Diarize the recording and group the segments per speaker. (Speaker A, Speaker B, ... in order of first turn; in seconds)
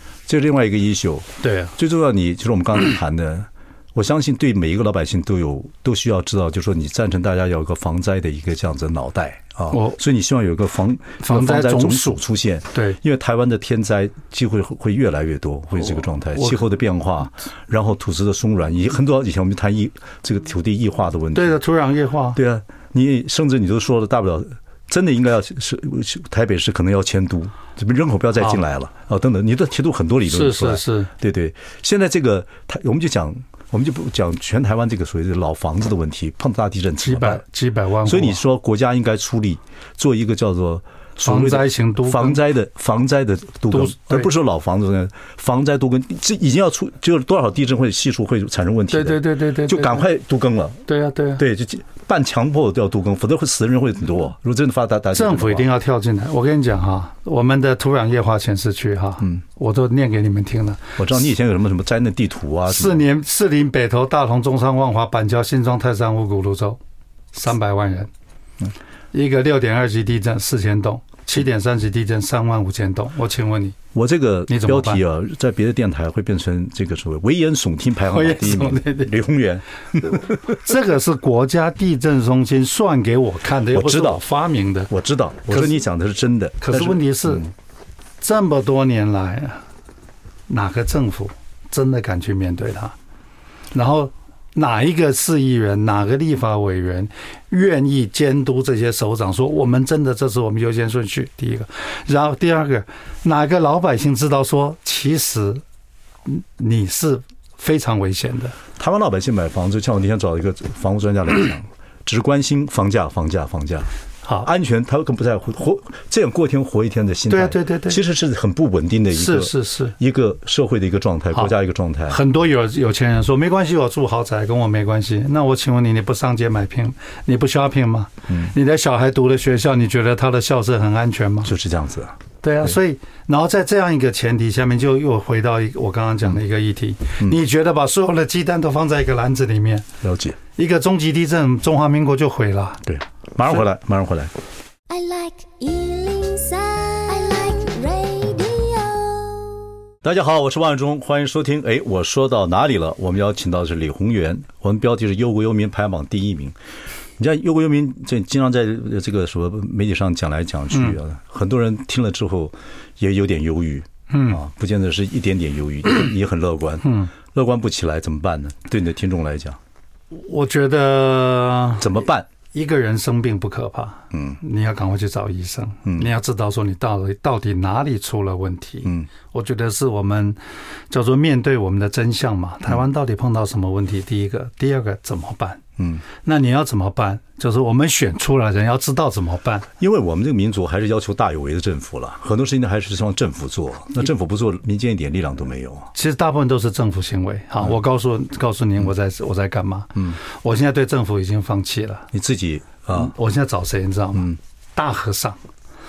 Speaker A: 0.3-21.6, 22.4-37.4, 38.0-50.8, 51.4-55.7, 61.0-63.0, 73.9-80.5, 83.7-84.2, 84.9-87.4, 108.8-113.9, 114.4-122.2, 131.4-132.8, 140.0-140.4, 142.8-144.3, 150.0-156.6, 157.2-169.6, 171.8-172.3, 174.1-174.4, 185.8-186.0, 189.8-195.9, 202.1-203.1
Speaker B: 1.4-1.7, 9.7-10.0, 11.2-12.2, 12.7-13.0, 16.3-16.6, 21.3-22.4, 30.3-31.1, 37.0-38.4, 41.2-42.4, 43.7-44.3, 48.9-50.0, 50.9-51.4, 55.1-61.0, 62.7-66.8, 67.3-68.1, 69.1-73.8, 74.5-75.0, 78.1-79.1, 80.0-84.9, 85.5-85.8, 86.6-87.5, 88.2-89.6, 90.5-92.9, 93.7-105.6, 106.2-108.6, 117.3-118.0, 119.1-120.0, 122.1-131.5, 132.4-139.9, 140.6-142.8, 164.1-164.4, 166.8-167.1, 170.1-180.4, 180.9-185.6, 186.2-189.7, 195.9-202.1, 202.9-205.4
Speaker C: 144.9-149.7